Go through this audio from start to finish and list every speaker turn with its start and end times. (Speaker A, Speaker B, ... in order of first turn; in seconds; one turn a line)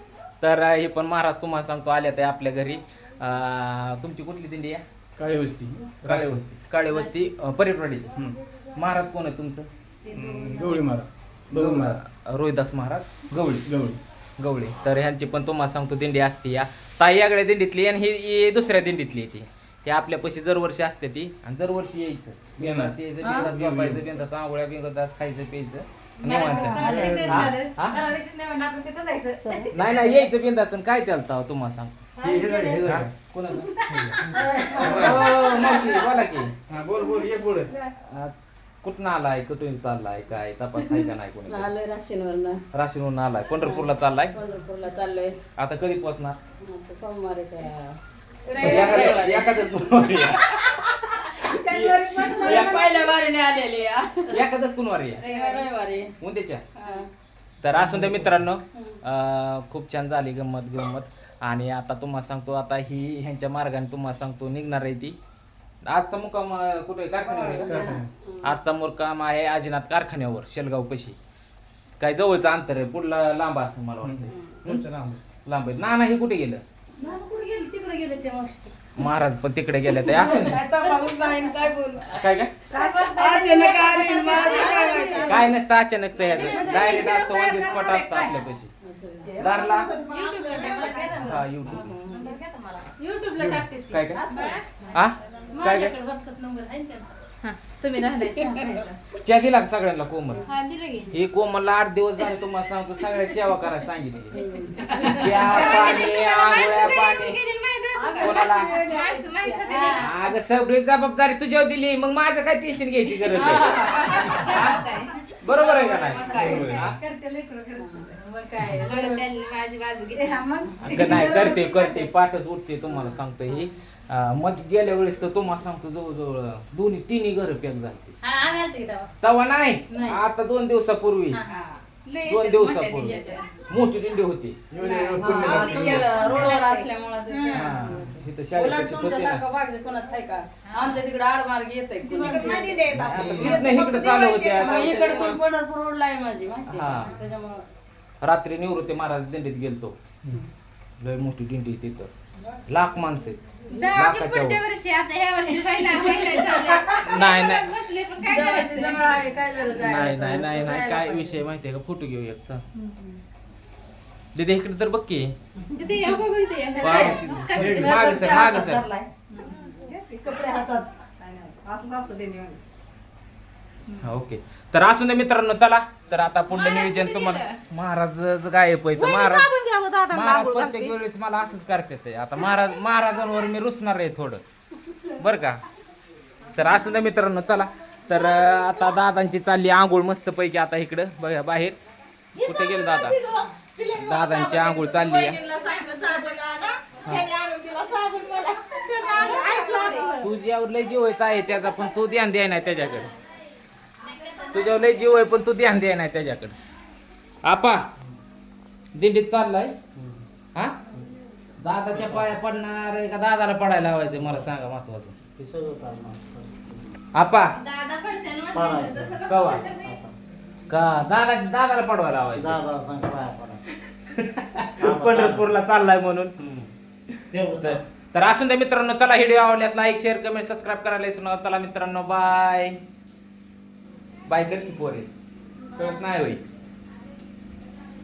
Speaker A: 0.4-4.8
Speaker B: 5.2-6.4
Speaker A: 6.0-8.1
Speaker A: 8.8-9.7
Speaker C: 10.1-10.8
Speaker B: 10.1-12.0
Speaker A: 11.5-13.6
Speaker B: 13.7-14.0
Speaker A: 14.4-28.0
Speaker B: 22.6-24.1
Speaker D: 23.2-23.5
Speaker C: 26.2-27.8
Speaker D: 26.2-30.2
Speaker B: 26.7-27.6
Speaker A: 29.7-31.9
Speaker B: 32.2-33.1
Speaker C: 32.2-32.9
Speaker A: 32.8-36.5
Speaker B: 33.9-35.4
Speaker D: 34.3-36.0
Speaker B: 36.7-37.7
Speaker A: 38.0-41.7
Speaker D: 40.9-42.6
Speaker A: 42.7-44.4
Speaker D: 43.6-45.4
Speaker A: 45.6-46.4
Speaker D: 46.6-49.7
Speaker E: 48.5-49.1
Speaker A: 48.5-53.1
Speaker E: 51.9-52.3
Speaker D: 52.2-54.3
Speaker C: 52.4-52.9
Speaker A: 54.3-55.2
Speaker D: 55.2-56.1
Speaker A: 56.2-56.6
Speaker D: 56.8-57.1
Speaker A: 57.6-65.2
Speaker B: 57.7-58.4
Speaker A: 65.9-71.2
Speaker D: 67.3-68.4
Speaker B: 67.4-68.1
Speaker A: 71.8-74.9
Speaker B: 74.0-75.2
Speaker D: 74.3-74.6
Speaker A: 75.5-76.6
Speaker D: 77.0-78.8
Speaker A: 79.0-80.6
Speaker D: 79.9-82.2
Speaker C: 80.8-81.5
Speaker A: 82.2-82.5
Speaker D: 82.7-85.5
Speaker C: 82.8-85.5
Speaker E: 84.3-85.3
Speaker A: 85.3-88.7
Speaker D: 86.2-92.9
Speaker C: 86.2-87.0
Speaker A: 89.4-89.9
Speaker C: 89.8-91.4
Speaker A: 91.2-92.0
Speaker C: 93.0-94.6
Speaker B: 93.4-93.7
Speaker A: 93.9-94.3
Speaker E: 94.2-94.6
Speaker A: 94.9-96.0
Speaker E: 95.5-96.5
Speaker D: 96.7-97.0
Speaker C: 97.4-98.9
Speaker D: 98.4-98.8
Speaker A: 99.2-100.4
Speaker C: 100.5-101.2
Speaker A: 101.1-104.4
Speaker D: 104.3-105.7
Speaker C: 104.8-110.1
Speaker A: 104.9-107.4
Speaker E: 105.7-105.9
Speaker E: 108.0-110.0
Speaker A: 108.2-108.8
Speaker D: 109.6-110.1
Speaker A: 110.0-114.8
Speaker D: 113.2-118.2
Speaker C: 113.4-115.0
Speaker A: 115.4-117.0
Speaker C: 118.2-122.0
Speaker D: 120.6-121.5
Speaker A: 120.8-128.2
Speaker E: 121.0-121.4
Speaker C: 128.3-128.9
Speaker A: 129.2-131.4
Speaker C: 132.1-133.5
Speaker A: 132.3-134.6
Speaker B: 134.7-136.3
Speaker D: 135.1-147.7
Speaker C: 135.2-137.8
Speaker A: 137.5-139.4
Speaker C: 140.7-141.0
Speaker C: 142.1-144.2
Speaker E: 142.5-142.7
Speaker B: 142.9-143.7
Speaker A: 143.1-145.4
Speaker C: 144.8-145.3
Speaker A: 146.7-147.2
Speaker A: 148.2-150.0
Speaker A: 151.0-152.1
Speaker A: 152.7-153.4
Speaker C: 153.7-159.2
Speaker A: 153.9-154.6
Speaker D: 156.0-157.0
Speaker A: 157.0-157.7
Speaker D: 158.2-161.4
Speaker A: 159.8-162.6
Speaker C: 162.8-163.2
Speaker A: 164.3-165.3
Speaker C: 165.8-168.1
Speaker D: 166.8-172.6
Speaker A: 166.8-168.8
Speaker B: 167.5-167.9
Speaker E: 169.4-170.1
Speaker A: 174.0-179.5
Speaker C: 176.5-177.6
Speaker E: 179.0-180.9
Speaker A: 180.1-184.4
Speaker A: 185.2-185.6
Speaker A: 186.6-191.8
Speaker E: 188.1-188.9
Speaker E: 192.3-200.3
Speaker A: 192.4-193.2
Speaker A: 194.0-195.4
Speaker C: 195.8-196.1
Speaker C: 199.0-200.2
Speaker A: 200.2-203.1
Speaker C: 204.2-205.0
Speaker A: 204.5-206.6
Speaker A: 207.4-207.9
Speaker A: 209.0-209.8
Speaker F: 210.0-210.2
Speaker A: 211.6-215.2
Speaker F: 211.9-212.3
Speaker F: 214.1-214.5
Speaker F: 215.4-217.0
Speaker A: 217.2-217.6
Speaker C: 217.6-220.0
Speaker F: 218.5-219.2
Speaker A: 219.3-219.7
Speaker F: 219.8-220.1
Speaker A: 220.7-222.6
Speaker F: 222.3-223.6
Speaker A: 224.1-226.7
Speaker F: 224.8-225.5
Speaker F: 227.3-227.8
Speaker A: 227.6-232.8
Speaker A: 234.3-235.1
Speaker A: 235.7-236.4